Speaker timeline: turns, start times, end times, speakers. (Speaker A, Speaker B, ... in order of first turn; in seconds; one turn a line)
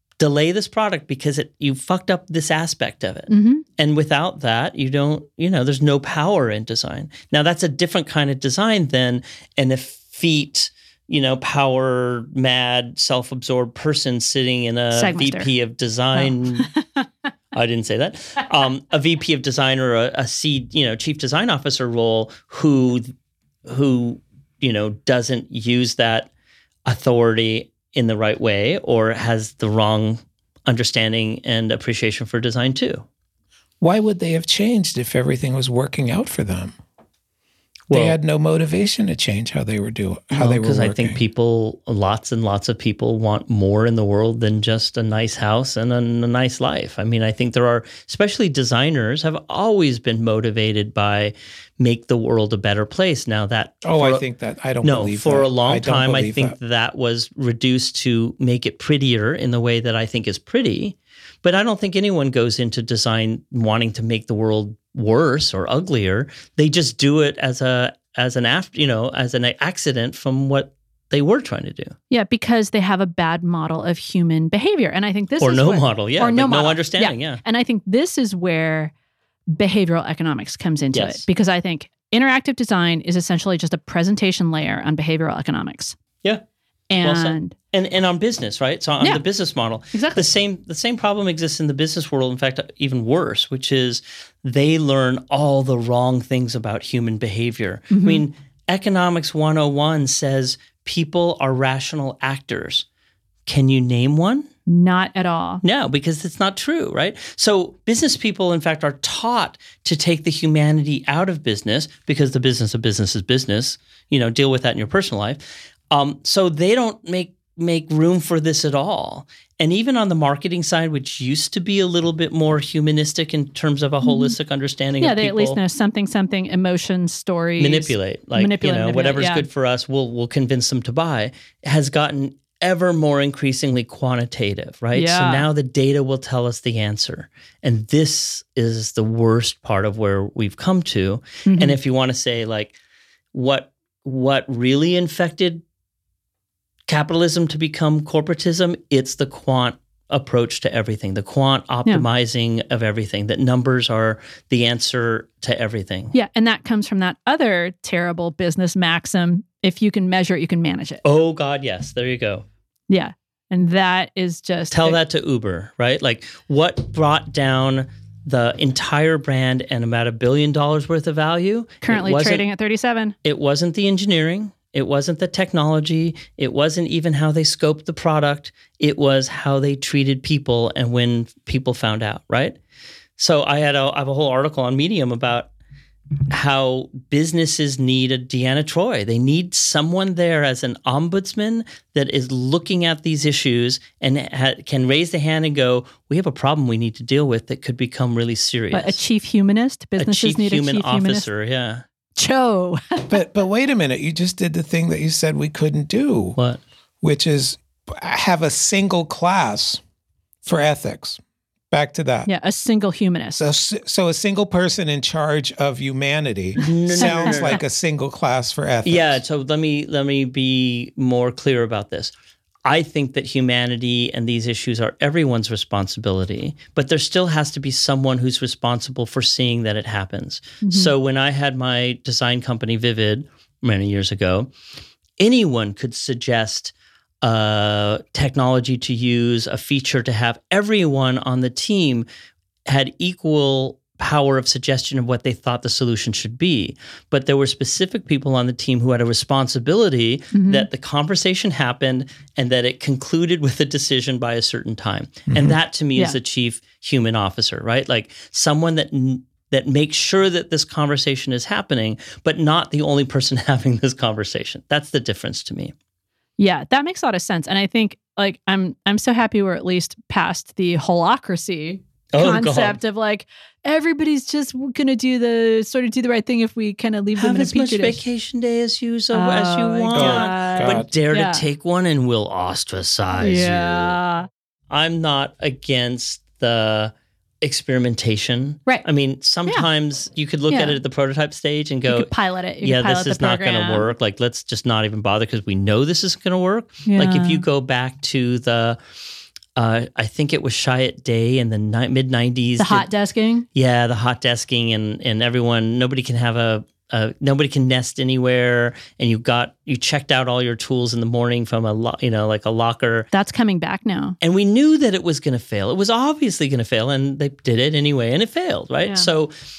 Speaker A: 0.2-16.7
Speaker B: 3.3-3.6
Speaker B: 14.9-15.5
Speaker B: 16.1-17.1
Speaker A: 17.5-23.1
Speaker A: 23.7-26.3
Speaker A: 26.9-33.1
Speaker C: 33.8-36.8
Speaker A: 37.9-38.2
Speaker C: 37.9-41.2
Speaker A: 40.3-54.2
Speaker C: 53.8-56.5
Speaker A: 54.8-72.0
Speaker B: 72.1-78.9
Speaker A: 75.4-77.4
Speaker B: 79.5-86.0
Speaker A: 80.9-81.2
Speaker B: 86.9-87.5
Speaker A: 87.0-102.8
Speaker B: 89.9-90.3
Speaker B: 97.9-98.2
Speaker A: 103.5-104.5
Speaker B: 104.7-105.6
Speaker A: 105.6-125.6
Speaker B: 124.0-124.4
Speaker B: 125.0-129.4
Speaker A: 127.6-142.8
Speaker B: 134.9-135.4
Speaker B: 141.5-141.8
Speaker A: 143.3-145.6
Speaker A: 146.9-156.1
Speaker B: 156.1-161.0
Speaker A: 161.0-162.4
Speaker B: 162.9-165.0
Speaker A: 164.7-172.4
Speaker B: 171.8-173.2
Speaker A: 173.2-182.6
Speaker A: 183.2-185.5
Speaker A: 186.3-199.0
Speaker B: 198.7-201.3
Speaker A: 200.0-201.8
Speaker B: 202.2-203.2
Speaker C: 203.1-206.4
Speaker C: 207.0-209.8
Speaker C: 210.4-212.3
Speaker B: 212.3-213.5
Speaker C: 213.4-219.2
Speaker A: 216.6-217.6
Speaker B: 217.1-217.5
Speaker A: 218.8-222.1
Speaker A: 222.7-234.5
Speaker B: 230.6-230.9
Speaker A: 235.2-242.1
Speaker A: 242.7-265.7
Speaker B: 250.3-250.7
Speaker C: 255.3-255.6
Speaker B: 266.4-278.0
Speaker A: 272.1-272.8
Speaker A: 277.2-284.0
Speaker B: 279.1-281.4
Speaker C: 279.9-280.9
Speaker B: 283.2-284.3
Speaker A: 284.7-292.1
Speaker B: 290.5-290.8
Speaker B: 291.9-293.9
Speaker A: 292.6-298.8
Speaker B: 296.9-297.4
Speaker A: 299.6-302.9
Speaker B: 302.6-303.5
Speaker A: 303.6-313.1
Speaker B: 313.1-314.2
Speaker A: 314.2-319.3